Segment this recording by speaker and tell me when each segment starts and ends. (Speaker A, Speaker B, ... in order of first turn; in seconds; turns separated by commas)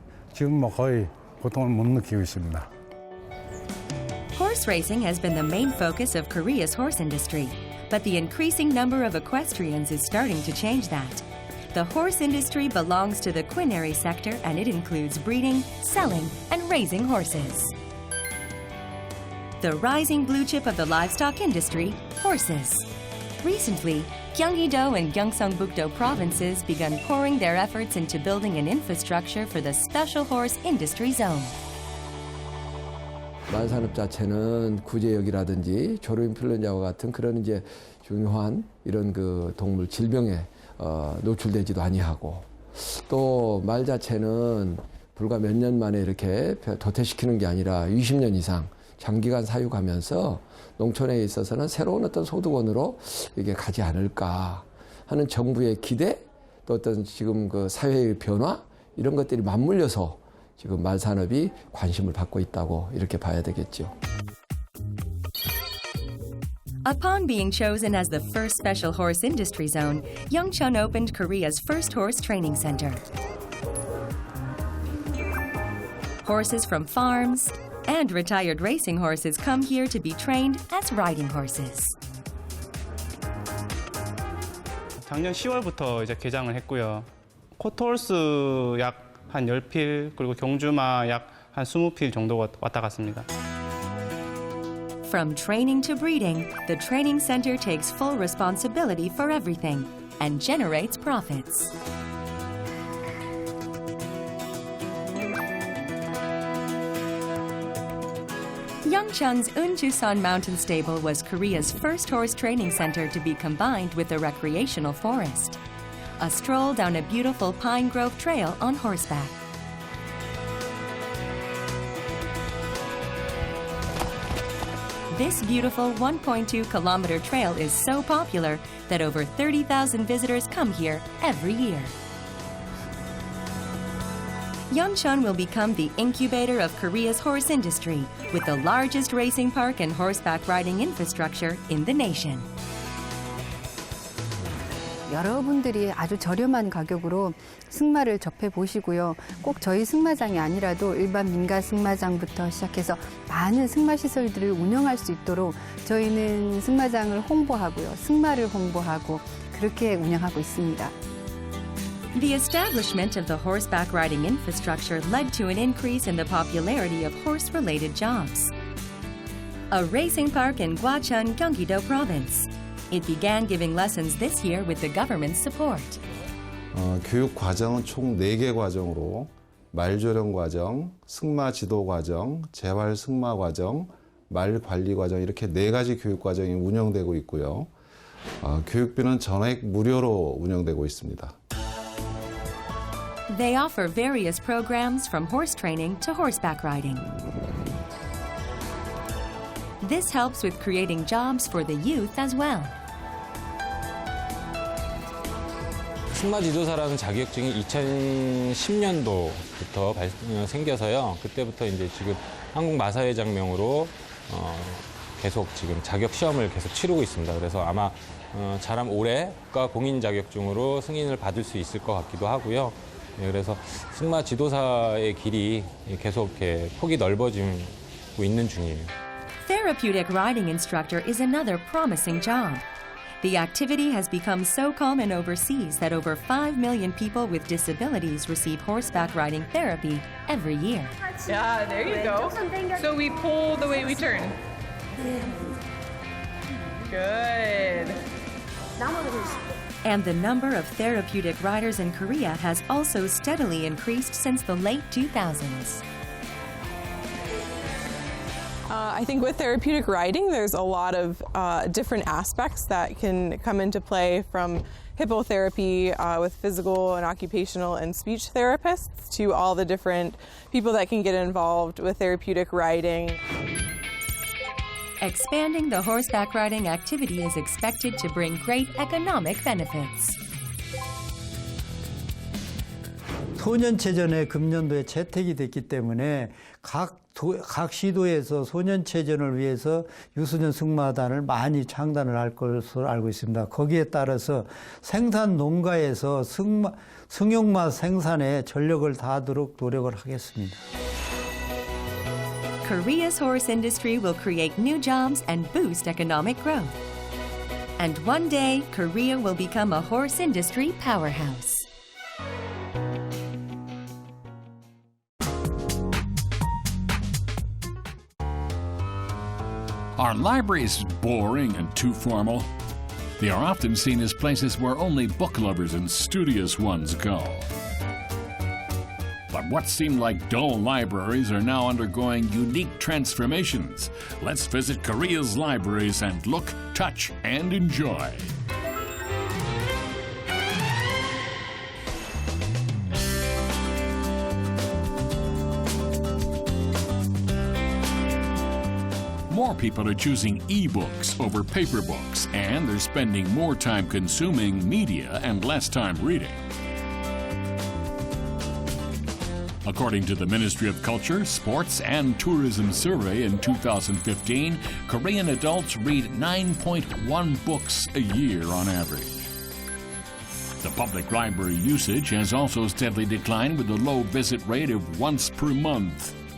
Speaker A: 0.4-2.6, Speaker B: 4.3-17.7, Speaker B: 19.6-22.9, Speaker B: 23.4-31.6, Speaker C: 33.5-63.9, Speaker B: 66.8-73.0, Speaker B: 76.2-82.0, Speaker D: 85.0-93.3, Speaker B: 95.0-101.7, Speaker B: 108.8-115.6, Speaker B: 116.2-119.4, Speaker B: 125.1-131.9, Speaker B: 134.7-142.5, Speaker E: 145.1-160.9, Speaker B: 162.1-168.5, Speaker B: 169.7-176.0, Speaker F: 176.7-187.7, Speaker F: 188.4-191.3, Speaker B: 193.3-197.1, Speaker B: 199.8-202.7, Speaker G: 206.1-228.9, Speaker B: 229.4-232.7, Speaker B: 233.2-241.0, Speaker B: 249.8-255.8, Speaker H: 258.7-273.2, Speaker B: 275.0-280.2, Speaker I: 283.4-300.6, Speaker B: 302.6-306.8, Speaker B: 307.8-311.7, Speaker J: 320.0-322.5, Speaker J: 323.2-327.5, Speaker J: 329.3-338.3, Speaker J: 349.3-356.4, Speaker J: 359.6-369.3, Speaker J: 370.6-376.2